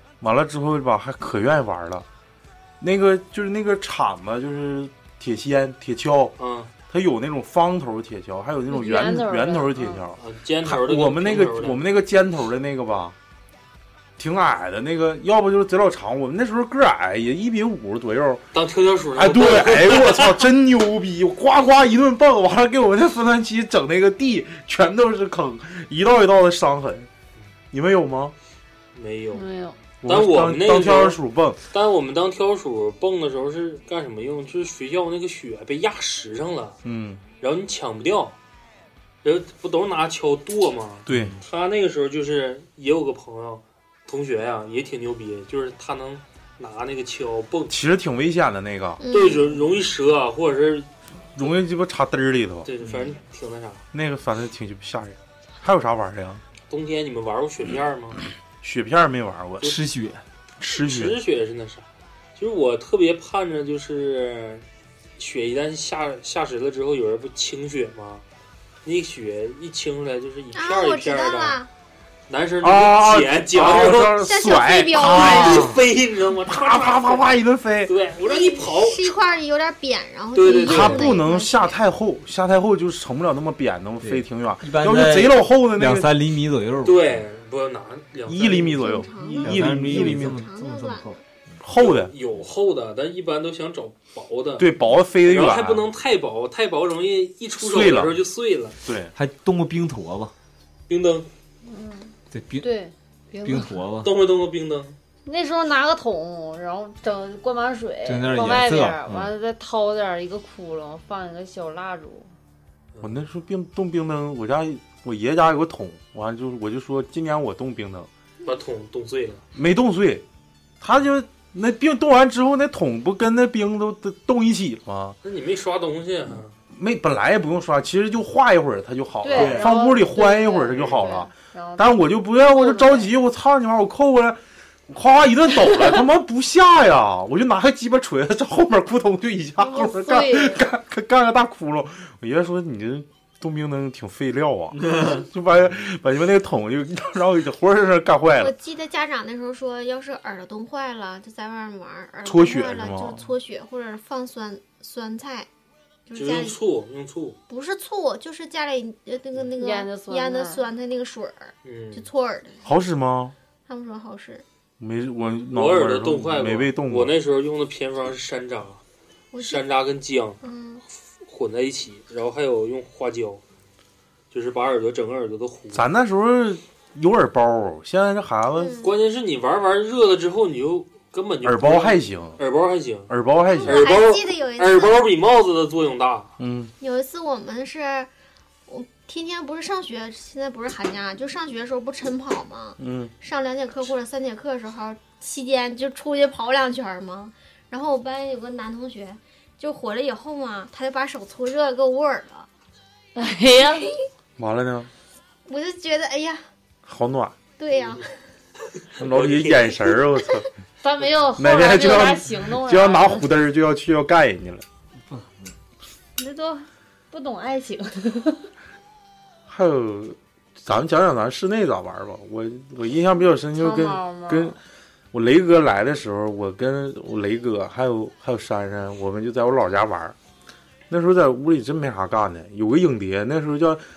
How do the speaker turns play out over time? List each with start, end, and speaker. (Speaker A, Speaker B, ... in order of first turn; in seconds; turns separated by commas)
Speaker A: 0.2-2.1, Speaker A: 2.8-6.3, Speaker B: 6.4-6.7, Speaker A: 6.9-13.2, Speaker C: 8.7-10.0, Speaker B: 10.2-11.8, Speaker A: 14.2-18.4, Speaker B: 18.5-20.5, Speaker A: 19.1-27.1, Speaker A: 27.7-28.4, Speaker B: 28.9-29.5, Speaker C: 29.3-29.8, Speaker A: 30.0-31.6, Speaker B: 30.1-31.2, Speaker B: 31.7-36.8, Speaker A: 36.8-37.2, Speaker B: 37.4-38.4, Speaker B: 39.2-47.8, Speaker A: 41.1-41.4, Speaker D: 41.1-41.4, Speaker A: 47.7-49.0, Speaker E: 49.0-49.5, Speaker B: 49.1-50.9, Speaker A: 51.4-52.7, Speaker B: 52.6-53.8, Speaker A: 53.9-56.4, Speaker B: 56.7-58.2, Speaker A: 58.6-59.8, Speaker D: 59.6-60.2, Speaker A: 60.6-61.2, Speaker B: 60.8-64.7, Speaker B: 65.2-68.2, Speaker B: 68.8-71.6, Speaker E: 70.5-71.7, Speaker B: 72.3-74.2, Speaker A: 72.6-75.8, Speaker E: 74.2-75.8, Speaker B: 74.9-79.1, Speaker A: 76.5-77.9, Speaker E: 78.2-81.8, Speaker B: 80.3-81.2, Speaker A: 80.5-86.1, Speaker D: 84.0-87.2, Speaker B: 86.8-88.9, Speaker A: 88.3-90.4, Speaker E: 88.6-91.2, Speaker D: 89.4-91.6, Speaker A: 91.6-92.1, Speaker B: 91.8-94.7, Speaker A: 94.6-95.9, Speaker B: 95.2-98.8, Speaker A: 97.6-98.2, Speaker A: 98.9-99.1, Speaker D: 99.2-100.3, Speaker B: 100.9-101.3, Speaker C: 101.6-103.8, Speaker D: 102.3-102.7, Speaker D: 103.4-104.1, Speaker B: 104.0-105.0, Speaker C: 105.2-112.3, Speaker D: 108.0-109.3, Speaker B: 112.9-113.2, Speaker A: 113.0-118.1, Speaker B: 118.5-119.4, Speaker A: 119.5-120.2, Speaker A: 120.8-125.2, Speaker B: 125.2-126.5, Speaker A: 126.7-148.5, Speaker C: 129.2-133.1, Speaker D: 129.3-129.7, Speaker B: 130.7-131.1, Speaker C: 139.6-140.6, Speaker D: 144.8-145.2, Speaker E: 148.4-155.5, Speaker A: 152.2-153.3, Speaker E: 156.1-156.6, Speaker B: 156.2-157.4, Speaker E: 157.5-162.6, Speaker C: 159.6-160.6, Speaker B: 161.7-162.1, Speaker A: 162.6-163.3, Speaker E: 163.7-164.4, Speaker A: 164.8-167.1, Speaker B: 165.5-168.8, Speaker E: 169.3-169.6, Speaker B: 169.4-170.4, Speaker E: 170.4-170.8, Speaker B: 171.2-173.4, Speaker B: 174.3-175.9, Speaker A: 175.7-178.8, Speaker E: 178.6-178.9, Speaker B: 178.8-183.1, Speaker A: 181.4-182.4, Speaker A: 183.1-183.9, Speaker E: 183.5-185.0, Speaker B: 183.6-186.3, Speaker A: 186.4-186.7, Speaker E: 186.8-188.1, Speaker E: 188.7-202.5, Speaker A: 192.8-193.1, Speaker C: 203.2-203.9, Speaker A: 204.4-204.9, Speaker E: 205.5-206.4, Speaker A: 206.8-207.3, Speaker E: 207.6-208.1, Speaker B: 209.0-209.8, Speaker A: 209.0-210.5, Speaker C: 210.8-213.3, Speaker A: 211.4-214.7, Speaker D: 215.1-215.5, Speaker C: 216.2-218.5, Speaker A: 219.5-224.6, Speaker C: 223.6-224.6, Speaker A: 225.1-230.2, Speaker A: 230.9-233.8